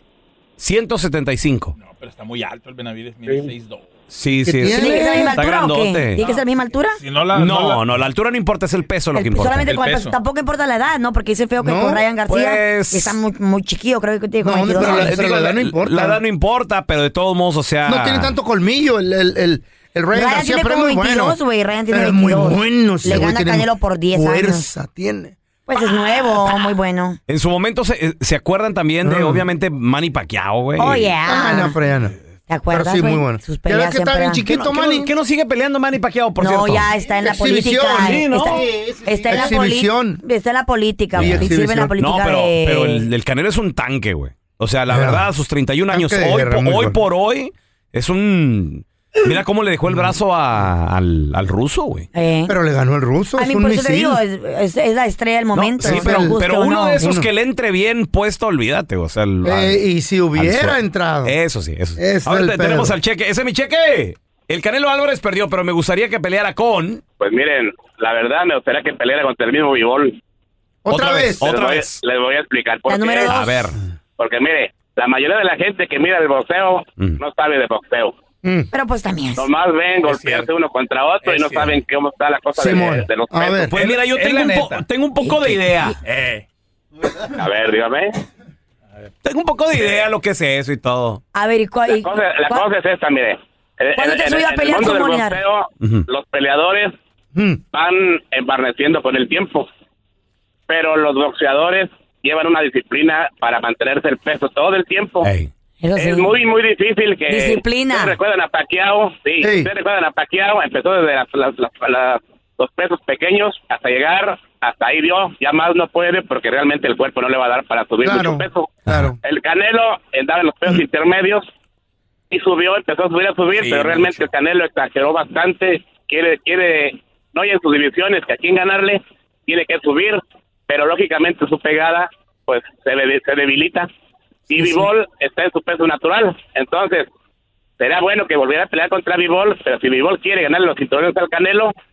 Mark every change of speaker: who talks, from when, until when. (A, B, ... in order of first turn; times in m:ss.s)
0:00.6-0:01.8 A
0:01.8-0:03.9 B
0:04.1-0:06.2 A
0:04.4-0:05.4 C
0:04.7-0:07.0 D
0:06.2-0:07.9 B
0:07.3-0:09.8 A
0:09.2-0:15.1 D
0:09.6-0:10.2 B
0:11.6-0:12.0 C
0:12.3-0:13.2 A
0:14.4-0:16.2 C
0:14.8-0:18.3 A
0:17.8-0:21.4 C
0:20.1-0:24.7 D
0:21.9-0:25.8 C
0:25.7-0:27.2 D
0:27.3-0:31.1 A
0:29.0-0:29.4 C
0:30.8-0:31.8 D
0:31.3-0:32.2 C
0:32.5-0:34.4 D
0:32.7-0:35.1 C
0:34.5-0:36.9 A
0:36.4-0:43.0 D
0:37.1-0:40.2 C
0:38.0-0:38.6 A
0:41.1-0:52.1 A
0:41.2-0:42.0 C
0:44.9-0:45.2 C
0:45.9-0:47.0 C
0:52.1-0:52.6 D
0:52.5-0:54.2 C
0:53.4-0:57.0 D
0:55.5-0:59.8 A
0:55.8-0:56.4 C
0:57.0-0:57.3 C
0:59.4-1:01.4 C
1:00.4-1:07.0 A
1:02.0-1:03.0 C
1:07.2-1:10.2 E
1:10.8-1:11.4 C
1:10.9-1:12.0 A
1:11.4-1:13.3 E
1:12.9-1:13.7 D
1:13.3-1:13.8 A
1:14.2-1:18.1 E
1:18.4-1:18.7 C
1:18.7-1:19.5 D
1:19.4-1:23.7 E
1:20.0-1:20.5 B
1:21.2-1:21.8 B
1:22.6-1:23.7 C
1:23.7-1:26.0 A
1:23.8-1:24.8 B
1:25.2-1:25.9 D
1:26.0-1:26.4 B
1:27.3-1:28.2 E
1:29.2-1:31.2 A
1:31.3-1:32.6 D
1:31.9-1:36.9 E
1:34.0-1:35.4 D
1:35.8-1:36.1 A
1:37.3-1:37.6 C
1:37.7-1:39.7 E
1:40.7-1:45.3 E
1:45.2-1:45.5 A
1:45.8-1:46.3 D
1:46.0-2:01.4 E
1:47.3-1:48.2 D
1:49.4-1:49.7 C
1:58.0-1:59.2 C
2:02.3-2:13.9 E
2:03.6-2:04.3 B
2:14.5-2:17.1 E
2:17.8-2:21.7 E